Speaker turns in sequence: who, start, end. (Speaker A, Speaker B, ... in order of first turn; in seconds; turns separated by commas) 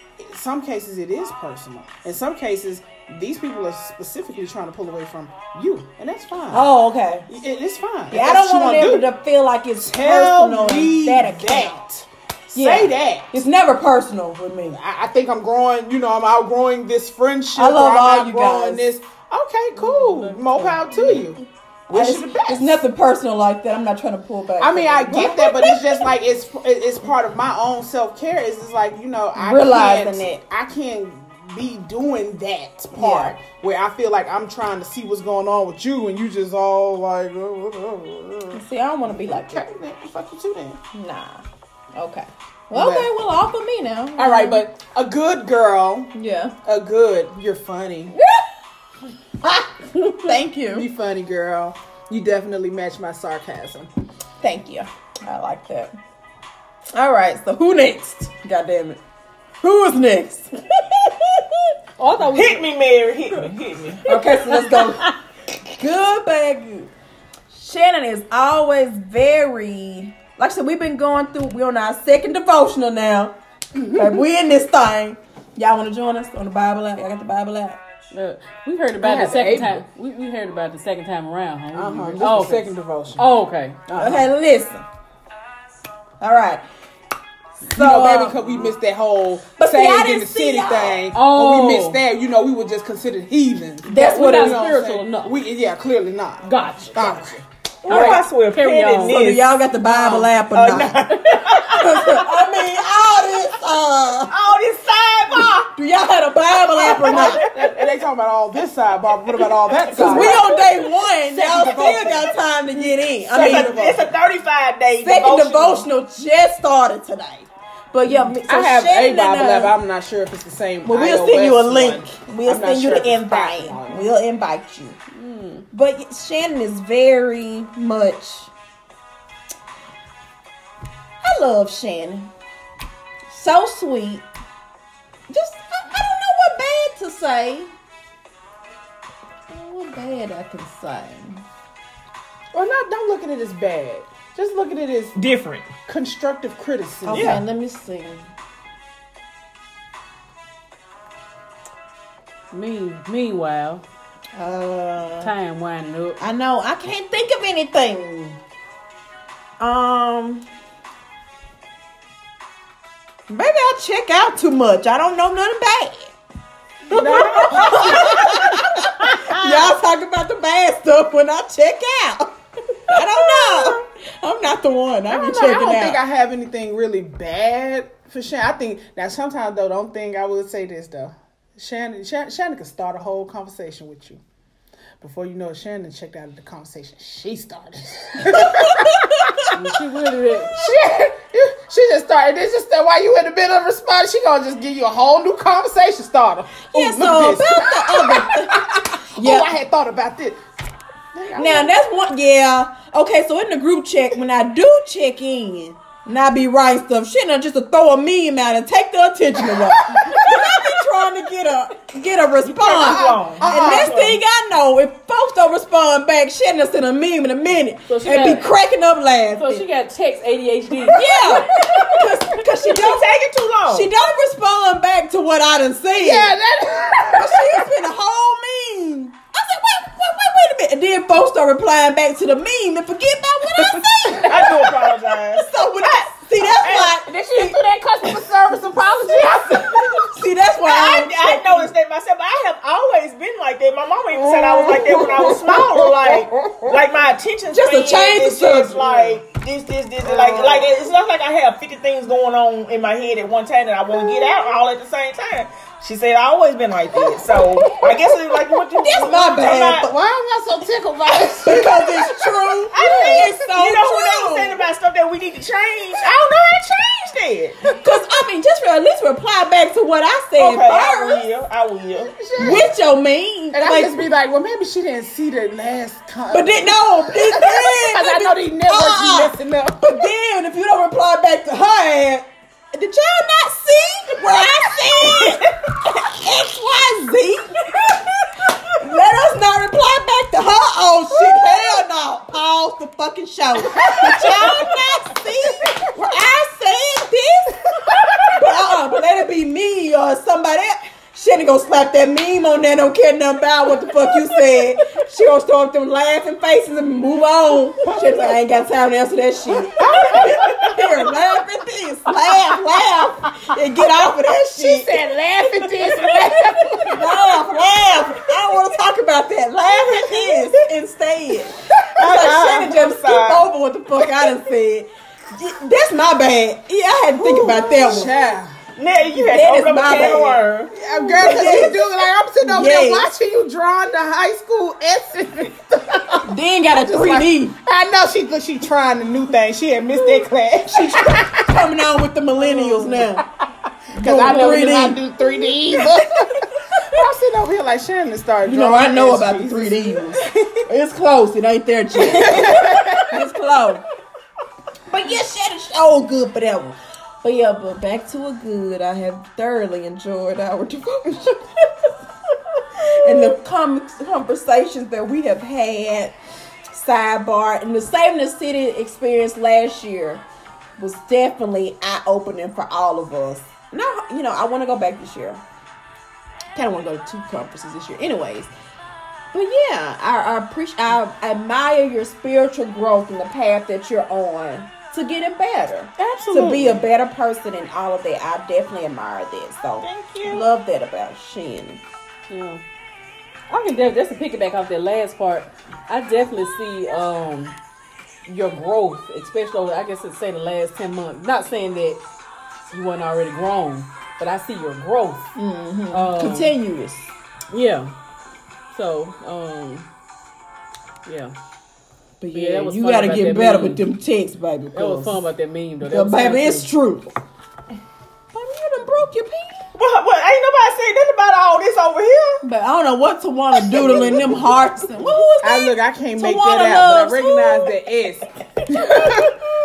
Speaker A: 0.2-6.7, Speaker B: 6.5-7.3, Speaker A: 7.3-9.1, Speaker B: 8.1-11.8, Speaker A: 9.8-13.3, Speaker B: 12.5-14.8, Speaker A: 14.7-22.8, Speaker B: 17.6-18.9, Speaker C: 19.8-20.8, Speaker B: 20.2-21.3, Speaker B: 21.9-26.1, Speaker A: 24.6-40.8, Speaker B: 29.4-30.4, Speaker B: 33.0-33.4, Speaker B: 38.5-39.6, Speaker B: 40.9-41.4, Speaker B: 41.9-44.6, Speaker A: 42.7-43.1, Speaker A: 44.2-48.2, Speaker B: 46.1-46.5, Speaker B: 48.1-48.5, Speaker B: 49.4-50.9, Speaker A: 50.7-53.9, Speaker B: 54.4-55.9, Speaker B: 56.9-59.0, Speaker B: 59.6-61.6, Speaker C: 62.0-62.7, Speaker D: 62.3-64.0, Speaker B: 64.1-66.9, Speaker C: 64.1-64.9, Speaker B: 67.5-73.3, Speaker B: 73.9-77.8, Speaker C: 78.1-84.3, Speaker A: 79.0-79.8, Speaker B: 81.8-82.4, Speaker A: 81.9-83.3, Speaker B: 84.0-84.8, Speaker B: 86.2-86.6, Speaker B: 87.6-88.7, Speaker A: 87.7-97.4, Speaker B: 89.6-91.0, Speaker C: 91.1-92.0, Speaker B: 93.8-94.7, Speaker C: 93.9-95.4, Speaker C: 96.4-97.3, Speaker D: 97.8-99.6, Speaker C: 97.9-99.2, Speaker B: 97.9-98.2, Speaker B: 99.0-101.1, Speaker D: 100.5-102.5, Speaker C: 101.1-102.0, Speaker B: 101.7-104.3, Speaker D: 104.3-105.7, Speaker B: 105.5-107.4, Speaker D: 106.8-107.8, Speaker A: 106.9-110.6, Speaker D: 109.5-110.5, Speaker B: 109.9-113.8, Speaker A: 111.3-112.3, Speaker A: 113.3-114.1, Speaker D: 113.3-115.9, Speaker B: 115.0-119.8, Speaker A: 118.5-124.1, Speaker B: 120.8-125.0, Speaker C: 125.1-125.7, Speaker B: 125.7-128.5, Speaker B: 131.2-132.3, Speaker B: 133.3-134.3, Speaker B: 135.3-137.7, Speaker B: 139.5-141.4, Speaker A: 142.5-145.2, Speaker D: 145.2-145.7, Speaker A: 145.9-147.4, Speaker B: 147.1-148.3, Speaker D: 147.1-147.4, Speaker C: 152.5-153.8, Speaker B: 154.3-155.3, Speaker C: 155.2-156.2, Speaker B: 156.2-158.4, Speaker B: 159.6-160.5, Speaker B: 163.3-166.2, Speaker A: 166.9-169.5, Speaker B: 166.9-172.3, Speaker B: 172.9-176.0, Speaker A: 172.9-173.8, Speaker A: 175.1-184.2, Speaker A: 185.0-189.6, Speaker B: 188.4-189.4, Speaker C: 189.5-190.6, Speaker A: 190.5-200.4, Speaker B: 196.7-199.5, Speaker A: 201.1-201.8, Speaker B: 201.3-219.7, Speaker A: 209.6-210.6, Speaker D: 212.4-214.2, Speaker A: 212.7-214.0, Speaker C: 217.9-218.5, Speaker C: 219.4-221.3, Speaker B: 220.9-223.1, Speaker A: 221.1-222.0, Speaker D: 222.6-223.9, Speaker B: 223.7-226.3, Speaker A: 225.9-227.7, Speaker B: 227.1-234.8, Speaker D: 234.2-235.5, Speaker B: 235.3-237.6, Speaker A: 236.6-240.1, Speaker B: 240.0-241.7, Speaker D: 240.6-259.9, Speaker B: 244.7-245.6, Speaker B: 247.5-248.9, Speaker A: 250.1-250.7, Speaker B: 258.8-259.9, Speaker A: 259.7-263.0, Speaker B: 261.4-264.6, Speaker D: 262.7-267.6, Speaker B: 267.7-271.3, Speaker D: 270.4-272.1, Speaker A: 272.0-272.7, Speaker B: 272.4-274.0, Speaker A: 273.5-280.1, Speaker B: 276.3-287.9, Speaker B: 288.6-297.6, Speaker A: 293.9-294.6, Speaker B: 298.2-314.9, Speaker A: 307.8-308.4, Speaker A: 309.8-310.7, Speaker A: 314.6-317.0, Speaker B: 316.9-328.1, Speaker A: 319.7-320.5, Speaker D: 322.0-323.5, Speaker A: 327.2-328.6, Speaker D: 328.8-330.7, Speaker B: 329.1-330.4, Speaker A: 330.7-341.6, Speaker B: 331.1-331.9, Speaker B: 332.4-333.1, Speaker B: 336.2-337.6, Speaker B: 340.7-343.2, Speaker A: 342.4-343.2, Speaker A: 343.9-350.6, Speaker B: 343.9-345.5, Speaker C: 344.2-344.9, Speaker B: 348.4-353.8, Speaker A: 352.0-353.2, Speaker B: 354.9-361.7, Speaker B: 362.8-366.1, Speaker B: 366.7-370.2, Speaker B: 370.8-375.4, Speaker B: 376.5-378.5, Speaker B: 379.3-391.8, Speaker C: 386.0-386.8, Speaker D: 389.8-390.4, Speaker C: 392.3-392.6, Speaker C: 393.5-397.6, Speaker C: 398.3-402.0, Speaker C: 402.7-405.3, Speaker B: 405.4-407.1, Speaker C: 405.9-406.6, Speaker C: 407.5-407.9, Speaker C: 408.7-409.9, Speaker C: 411.1-411.3, Speaker B: 412.2-415.2, Speaker C: 412.3-413.8, Speaker C: 414.7-416.7, Speaker B: 415.8-417.1, Speaker B: 418.3-419.7, Speaker D: 419.8-422.4, Speaker B: 422.4-427.7, Speaker A: 423.8-424.5, Speaker A: 425.4-429.3, Speaker C: 428.9-429.3, Speaker B: 429.0-429.3